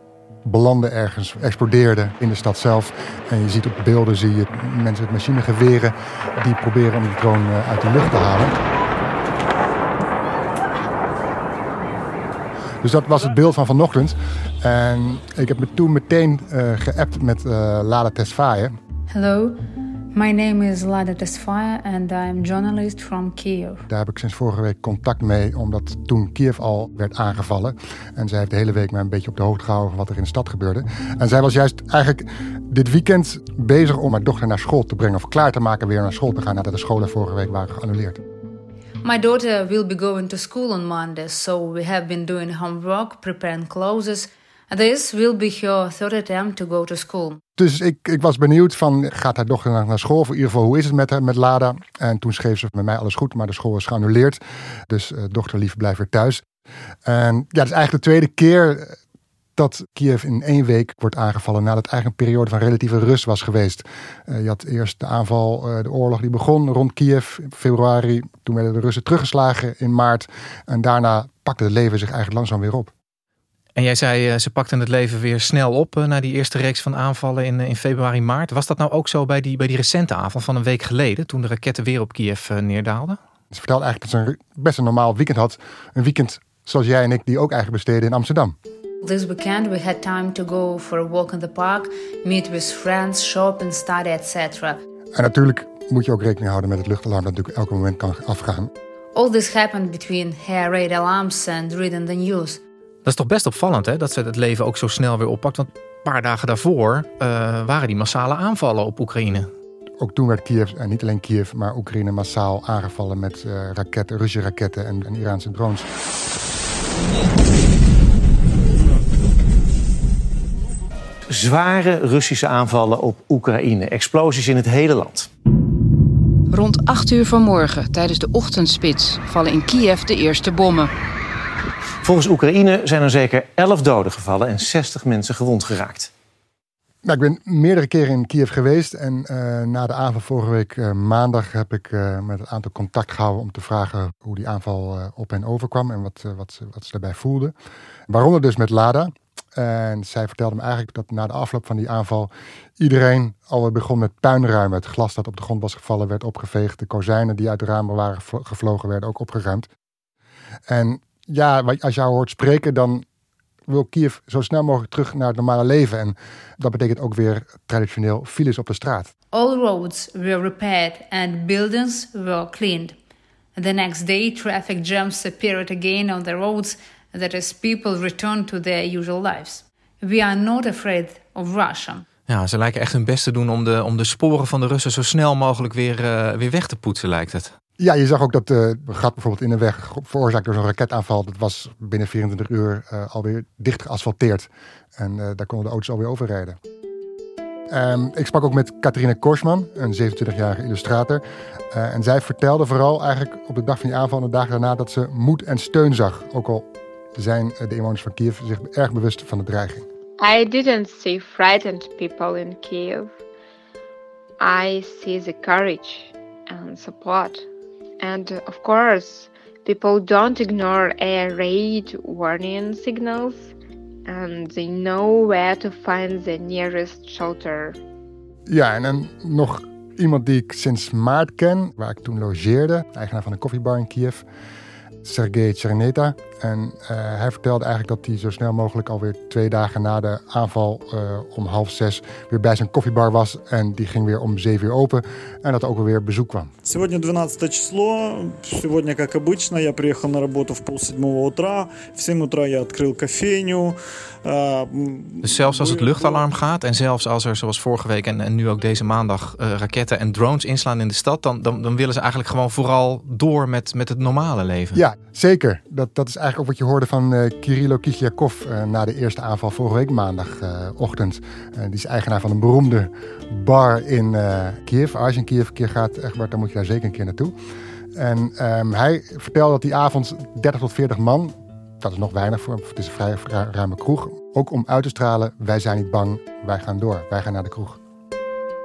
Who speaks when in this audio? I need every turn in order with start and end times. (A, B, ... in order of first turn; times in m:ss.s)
0:00.4-0:08.6 A
0:12.8-0:18.7 A
0:19.1-0:19.6 B
0:20.1-0:23.8 B
0:23.9-0:38.2 A
0:39.0-0:47.4 B
0:47.6-0:56.4 A
0:57.0-0:59.0 A
0:59.6-1:12.9 A
1:13.8-1:23.2 C
1:23.5-1:28.5 A
1:29.0-1:34.8 B
1:35.1-1:38.7 A
1:39.1-1:42.6 B
1:43.0-1:49.5 C
1:50.0-1:55.9 A
2:01.3-2:05.3 D
2:06.5-2:10.9 E
2:12.0-2:16.1 D
2:17.0-2:27.5 A
2:28.1-2:39.7 A
2:40.7-2:43.0 A
2:43.7-2:49.1 A
2:49.3-2:53.0 B
2:53.5-3:02.0 B
3:02.3-3:07.5 C
3:07.8-3:16.6 A
3:17.7-3:29.8 A
3:30.2-3:33.1 F
3:34.4-3:37.4 F
3:38.0-3:43.5 F
3:44.1-3:47.8 F
3:48.5-3:54.2 A
3:55.0-4:06.5 A
4:06.6-4:13.7 G
4:14.2-4:16.2 G
4:15.2-4:24.8 C
4:24.7-4:37.3 A
4:38.0-4:47.8 A